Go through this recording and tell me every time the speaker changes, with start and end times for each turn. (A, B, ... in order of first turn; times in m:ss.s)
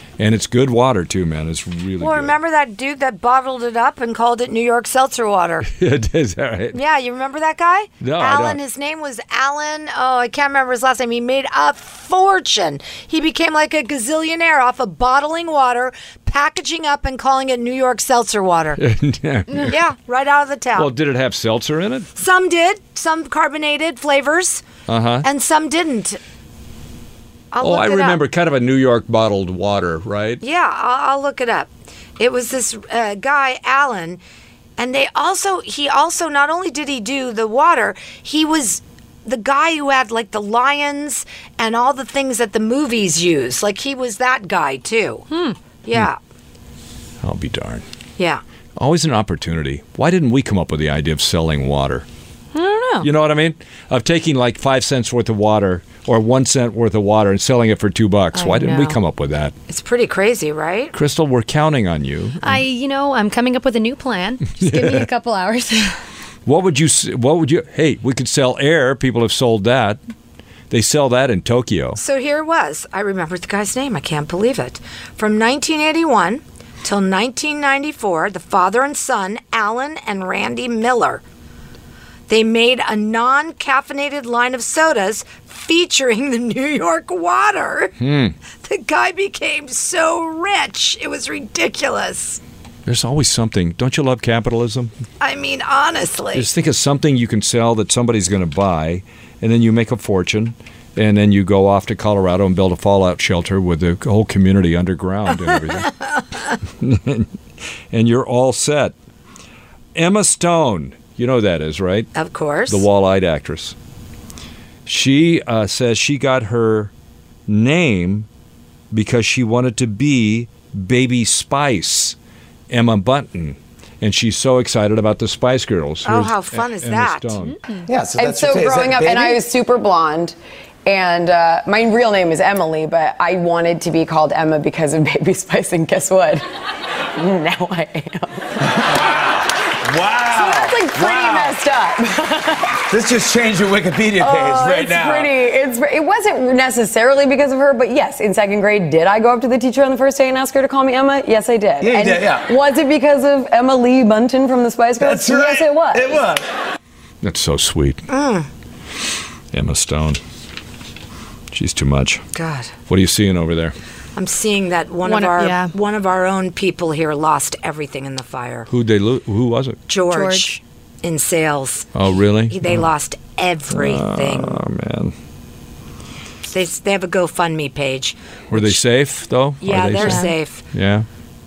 0:00.2-0:02.4 A
0:02.0-0:05.7 B
0:05.6-0:06.8 A
0:06.7-0:18.8 B
0:08.0-0:08.6 A
0:18.8-0:19.8 A
0:19.6-0:20.9 B
0:20.8-0:22.1 A
0:22.2-0:24.7 B
0:24.9-0:25.3 A
0:25.2-0:26.2 B
0:27.5-0:28.2 B
0:27.6-0:30.4 A
0:30.4-0:34.2 B
0:34.8-0:45.2 B
0:45.3-0:45.6 C
0:45.8-0:46.2 B
0:47.2-0:47.8 A
0:48.2-0:48.4 B
0:48.8-0:52.1 A
0:52.5-0:53.1 C
0:53.0-0:59.5 A
0:58.3-0:59.0 C
0:59.7-1:00.9 B
1:00.9-1:02.6 A
1:02.4-1:06.0 C
1:04.6-1:05.1 A
1:06.5-1:10.0 A
1:10.7-1:12.0 A
1:12.0-1:21.2 B
1:22.3-1:27.9 B
1:28.0-1:28.4 A
1:28.6-1:32.4 B
1:32.9-1:34.9 A
1:35.2-1:36.5 B
1:36.3-1:45.9 A
1:46.8-1:47.3 A
1:47.9-1:49.0 A
1:50.0-1:52.1 A
1:52.2-1:52.9 B
1:52.7-1:53.8 A
1:54.9-1:56.9 A
1:57.5-1:58.3 A
1:58.9-2:02.2 A
2:02.7-2:07.6 A
2:06.0-2:07.4 B
2:07.4-2:07.9 C
2:07.9-2:09.4 D
2:08.2-2:16.4 E
2:17.2-2:18.6 E
2:18.8-2:21.6 D
2:20.3-2:22.8 E
2:22.9-2:25.4 D
2:24.1-2:36.2 E
2:31.8-2:32.6 D
2:35.0-2:36.5 D
2:37.2-2:38.1 A
2:38.1-2:38.5 B
2:39.5-2:40.2 A
2:41.5-2:42.2 A
2:42.3-2:42.7 B
2:42.9-2:43.8 A
2:44.2-2:48.7 B
2:45.0-2:45.7 C
2:48.7-2:49.8 A
2:49.9-2:51.9 B
2:50.1-2:50.5 C
2:52.0-2:52.8 A
2:52.4-2:54.6 B
2:53.7-2:55.1 A
2:56.5-2:58.8 B
2:58.5-3:01.1 A
2:59.6-3:00.6 B
2:59.9-3:00.3 C